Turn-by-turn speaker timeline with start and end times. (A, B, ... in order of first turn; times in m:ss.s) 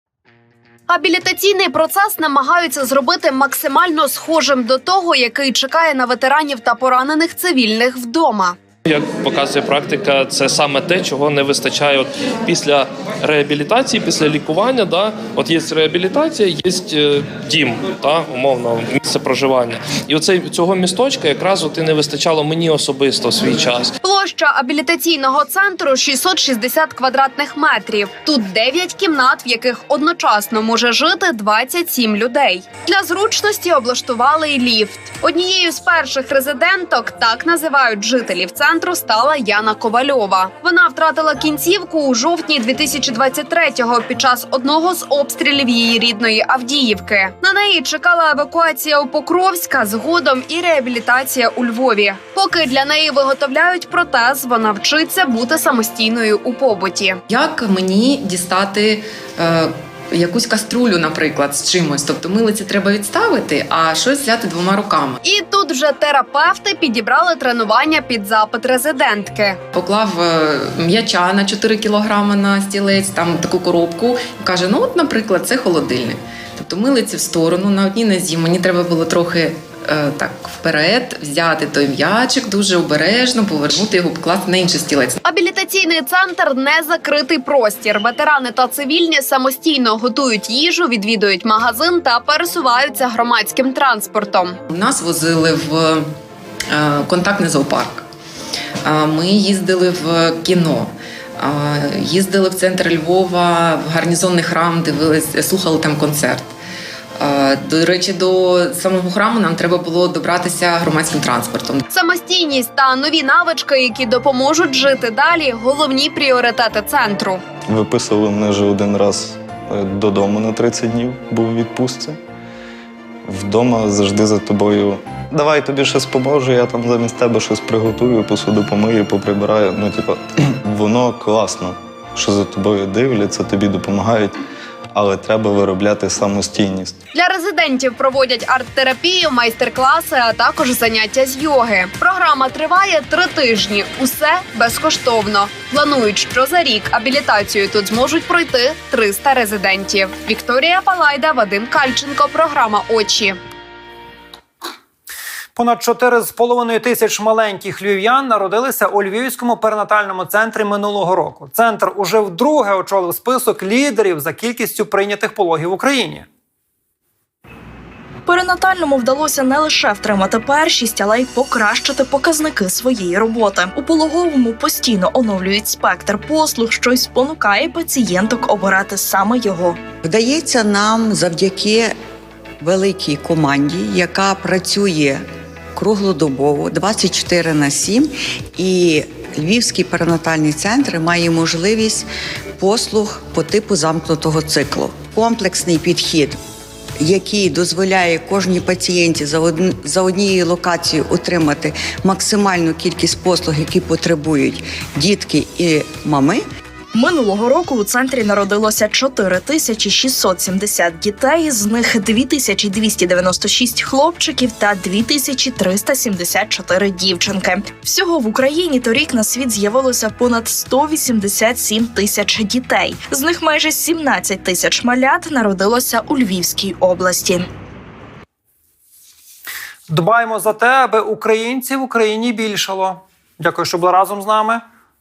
0:00.9-0:08.6 A
0:08.8-0:23.9 B
0:24.0-0:57.2 A
0:57.3-1:05.2 C
1:05.2-1:09.6 A
1:09.7-1:25.2 C
1:25.2-1:34.5 A
1:34.7-1:36.0 C
1:36.7-1:38.0 C
1:38.8-1:46.5 C
1:47.2-1:51.8 C
1:51.9-1:57.4 A
1:57.7-2:02.2 D
2:03.3-2:14.4 D
2:14.9-2:17.0 D
2:17.1-2:33.4 A
2:35.6-2:46.2 E
2:48.2-2:59.8 F
3:00.0-3:01.9 G
3:02.6-3:05.2 G
3:05.8-3:12.0 G
3:12.6-3:16.4 G
3:17.0-3:26.4 G
3:26.9-3:47.5 F
3:49.9-3:54.6 E